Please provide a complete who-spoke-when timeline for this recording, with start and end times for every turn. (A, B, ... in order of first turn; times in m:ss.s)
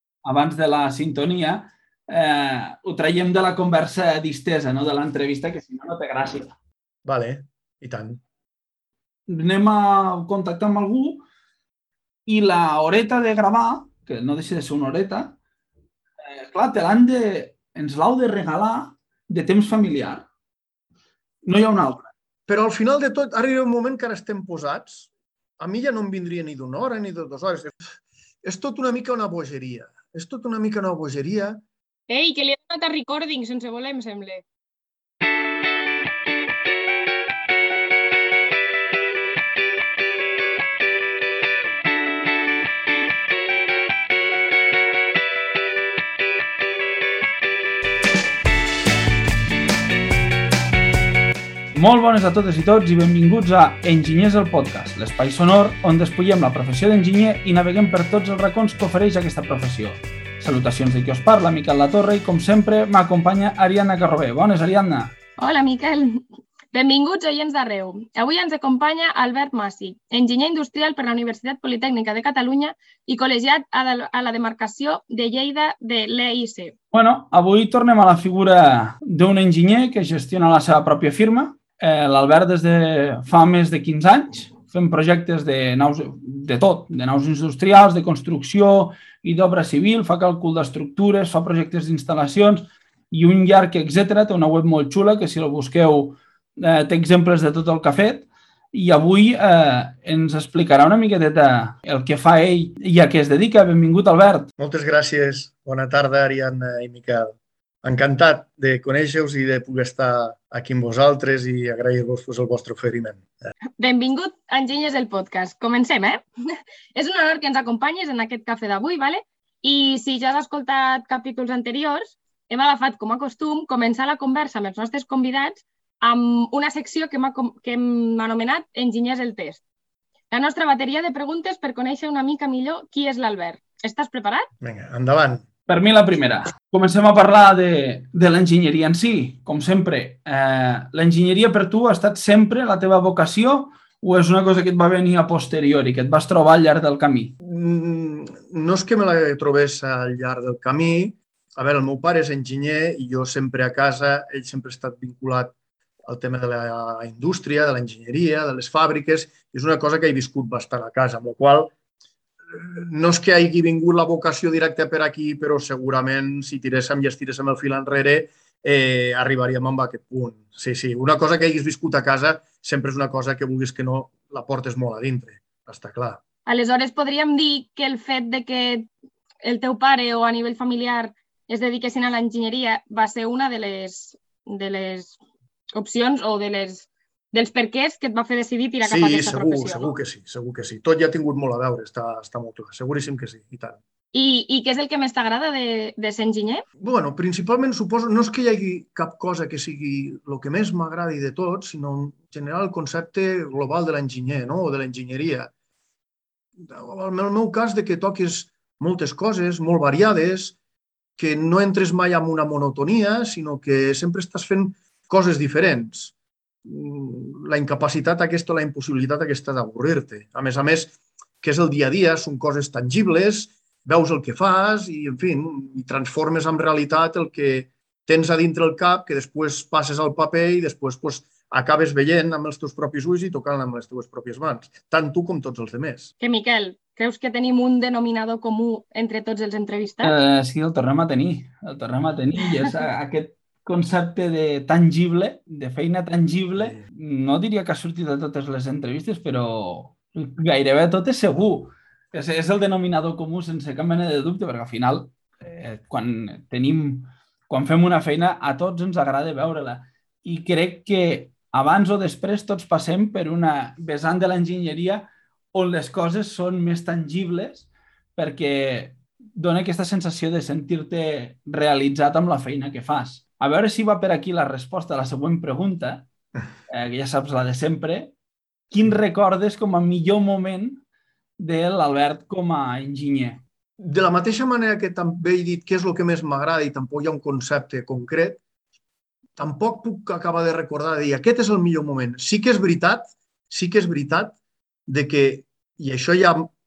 0:00.2-0:06.5 A
0:07.0-0:08.2 B
0:09.3-0:11.2 A
0:12.2-0:15.4 A
0:16.3-0:20.3 A
0:21.4-0:22.1 A
0:22.5-0:27.9 B
0:28.4-0:31.6 B
0:32.1-0:34.4 C
0:51.7-1:05.2 A
1:05.4-1:16.7 C
1:16.9-1:44.5 A
1:44.6-1:53.3 B
1:53.8-2:09.6 C
2:10.3-2:14.5 C
2:14.6-2:15.4 B
2:15.7-2:27.3 A
2:27.4-2:35.5 B
2:36.0-2:41.7 B
2:42.5-2:56.2 B
2:56.4-2:58.9 C
2:59.4-3:05.2 C
3:05.7-3:09.9 C
3:08.8-3:13.8 B
3:14.1-3:16.6 C
3:16.8-3:25.5 B
3:26.6-3:30.6 B
3:31.2-3:36.1 B
3:36.6-3:56.1 B
3:56.2-4:00.1 C
4:00.0-4:36.1 A
4:36.7-4:38.1 A
4:38.7-4:40.8 A
4:41.4-4:43.4 A
4:43.8-4:48.4 B
4:49.4-4:56.5 B